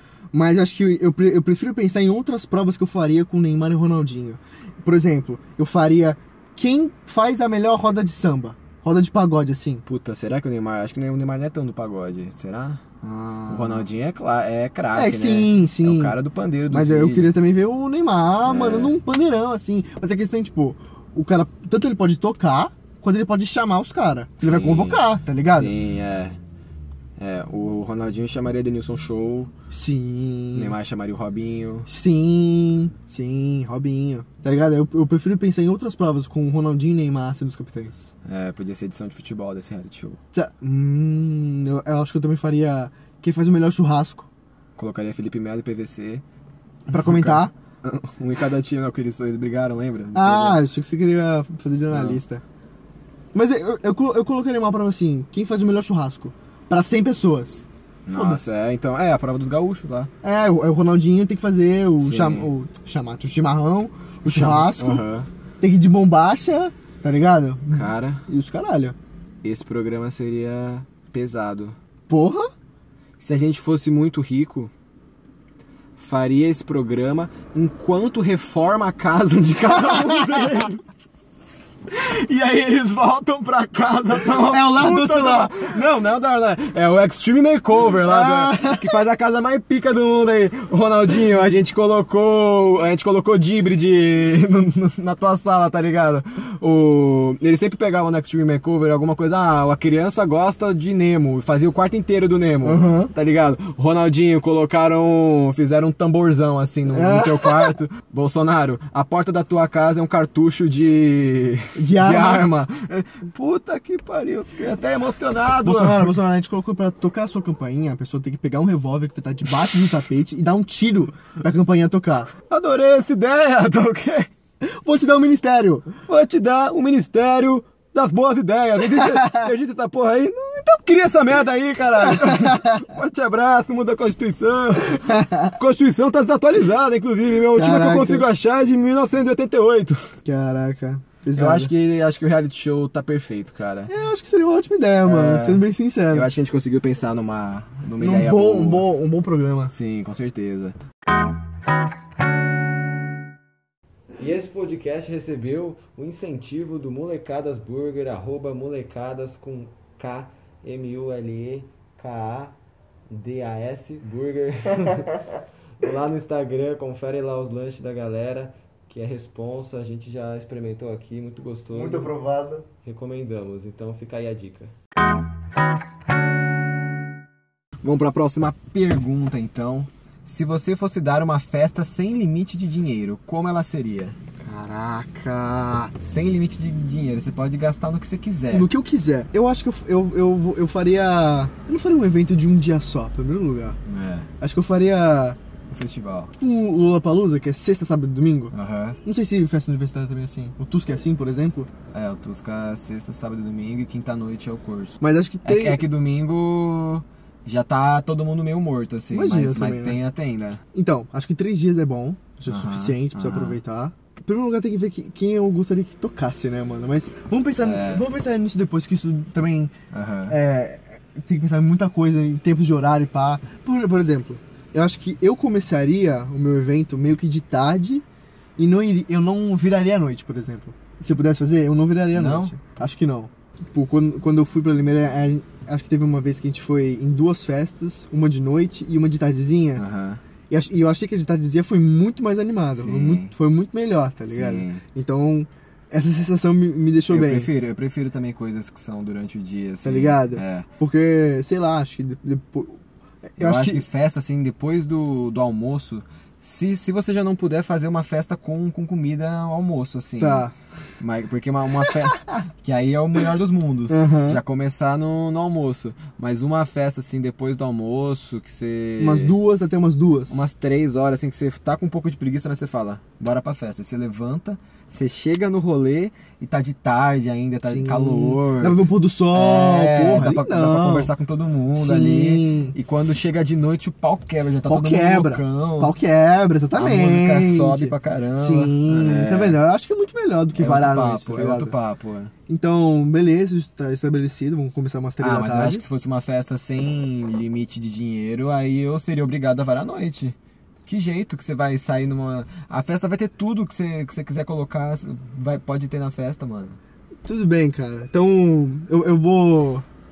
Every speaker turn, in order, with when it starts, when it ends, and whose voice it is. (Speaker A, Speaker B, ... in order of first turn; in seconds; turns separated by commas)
Speaker A: 0.3-9.8, Speaker B: 9.9-12.8, Speaker A: 13.0-13.9, Speaker B: 13.5-17.3, Speaker A: 14.9-16.2, Speaker A: 16.7-25.7, Speaker B: 18.4-19.0, Speaker B: 24.4-26.4, Speaker B: 27.2-29.5, Speaker A: 29.7-30.8, Speaker B: 30.5-31.9, Speaker A: 31.9-38.1, Speaker B: 38.2-40.2, Speaker A: 40.3-44.3, Speaker B: 44.8-46.2, Speaker A: 46.9-47.5, Speaker B: 46.9-50.6, Speaker A: 50.1-52.4, Speaker B: 51.9-52.2, Speaker A: 53.3-58.5, Speaker B: 58.1-60.1, Speaker A: 60.2-65.0, Speaker B: 62.0-62.5, Speaker B: 64.1-65.3, Speaker A: 65.6-69.0, Speaker B: 67.7-68.2, Speaker B: 69.4-71.8, Speaker A: 72.1-72.5, Speaker B: 73.2-74.7, Speaker B: 76.0-80.8, Speaker A: 79.9-80.4, Speaker B: 81.9-116.2, Speaker A: 84.3-85.8, Speaker A: 88.0-89.0, Speaker A: 102.6-103.1, Speaker A: 106.9-107.8, Speaker A: 111.8-112.5, Speaker A: 115.6-122.3, Speaker B: 122.5-124.3, Speaker A: 124.6-125.9, Speaker B: 126.1-140.1, Speaker A: 129.0-129.5, Speaker A: 132.1-132.8, Speaker A: 135.0-135.6, Speaker A: 137.5-138.3, Speaker A: 140.2-141.7, Speaker B: 141.3-143.9, Speaker A: 143.9-146.3, Speaker B: 145.0-148.9, Speaker A: 148.0-149.7, Speaker B: 149.7-150.8, Speaker B: 154.2-162.6, Speaker B: 163.1-172.1, Speaker A: 171.7-172.7, Speaker B: 172.8-174.7, Speaker B: 177.8-184.2, Speaker A: 184.4-185.9, Speaker B: 186.0-188.7, Speaker A: 188.5-193.8, Speaker B: 193.9-194.3, Speaker A: 194.4-195.4, Speaker B: 195.7-196.3, Speaker A: 196.4-198.5, Speaker B: 198.5-199.0, Speaker A: 199.1-201.7, Speaker B: 201.9-210.6, Speaker A: 205.0-205.8, Speaker A: 209.1-210.0, Speaker A: 210.7-219.7, Speaker B: 212.5-213.6, Speaker B: 217.6-218.1, Speaker B: 219.9-220.4, Speaker A: 220.3-228.0, Speaker A: 228.6-239.8, Speaker B: 232.1-232.6, Speaker B: 239.8-240.2, Speaker A: 240.5-247.5, Speaker B: 242.8-243.3, Speaker B: 244.2-244.8, Speaker B: 247.1-250.7, Speaker A: 249.8-253.8, Speaker B: 253.4-260.5, Speaker A: 260.2-260.5, Speaker B: 261.0-269.4, Speaker A: 263.9-264.4, Speaker A: 269.0-270.4, Speaker B: 270.3-285.9, Speaker A: 277.6-281.1, Speaker A: 281.8-282.8, Speaker A: 284.7-291.8, Speaker B: 286.8-289.6, Speaker B: 290.5-292.3, Speaker A: 292.5-295.8, Speaker B: 295.2-306.8, Speaker A: 307.2-309.9